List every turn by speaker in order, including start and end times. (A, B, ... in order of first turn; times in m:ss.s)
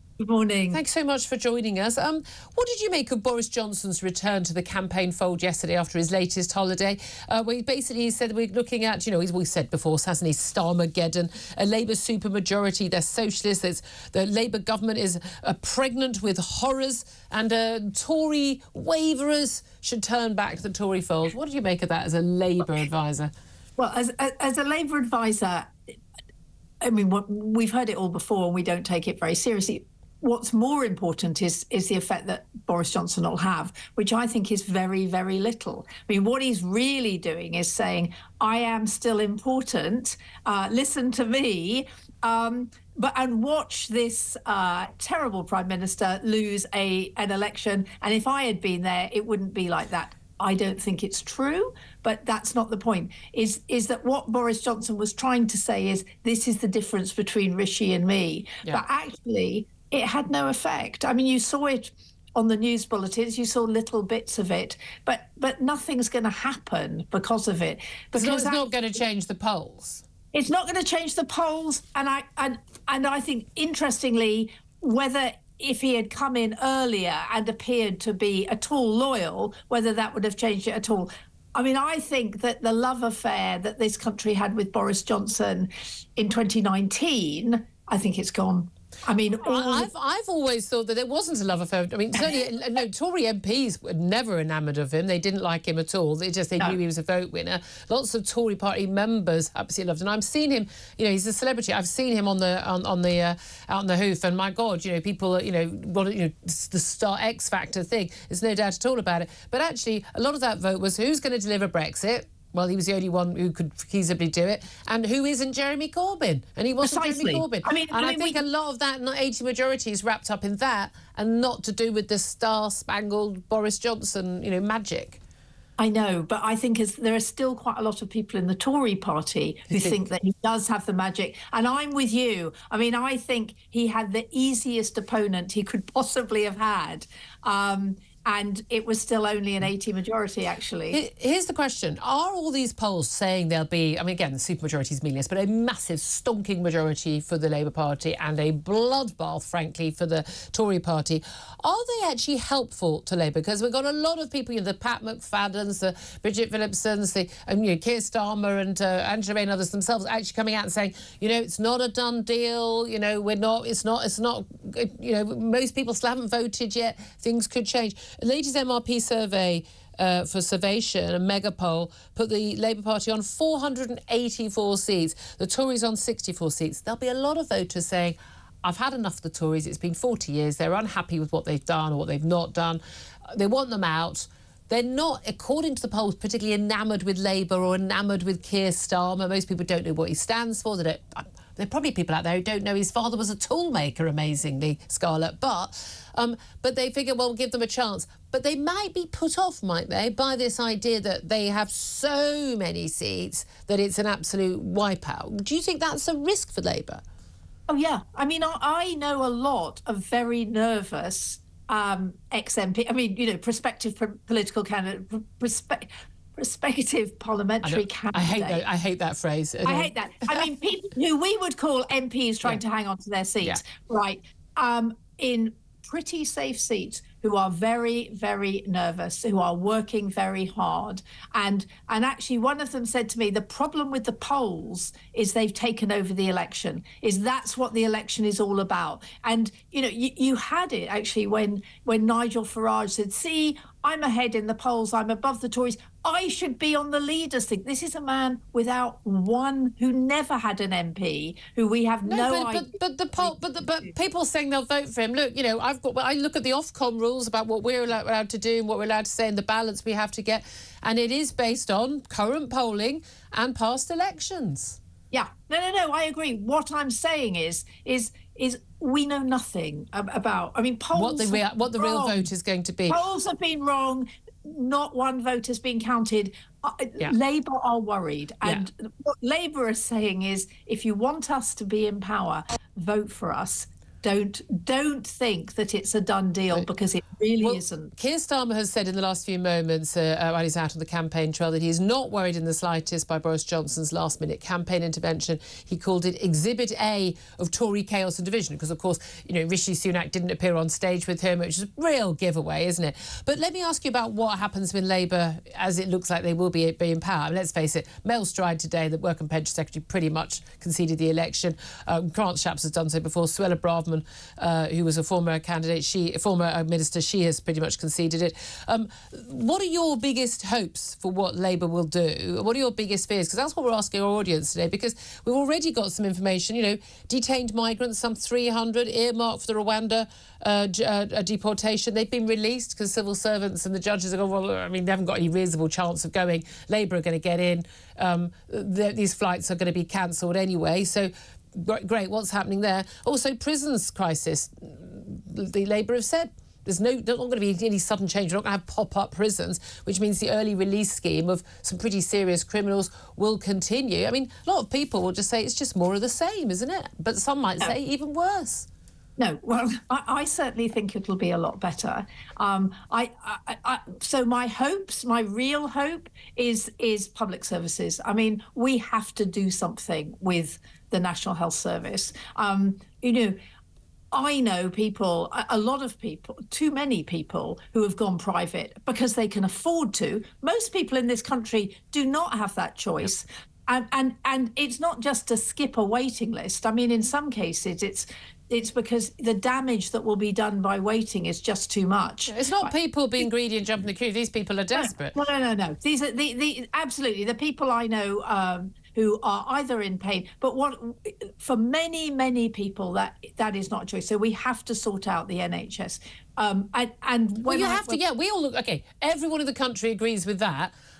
0:00.2-0:00.8 A
0:00.7-0:23.3 B
0:23.8-0:25.7 A
0:26.8-1:08.6 A
1:08.1-1:10.0 B
1:10.3-1:29.9 A
1:29.4-2:05.2 B
1:56.8-1:58.4 A
2:05.8-2:21.0 A
2:09.7-2:10.0 B
2:20.9-3:27.0 B
3:27.7-3:38.6 A
3:37.6-3:40.5 B
3:39.6-4:13.9 A
4:12.0-4:24.8 B
4:25.1-4:32.3 A
4:30.9-4:33.0 B
4:32.9-4:47.9 A
4:47.4-5:58.7 B
5:59.2-6:13.4 A
6:14.1-6:32.7 A
6:32.3-6:35.1 B
6:34.7-6:48.0 A
6:47.5-6:50.7 B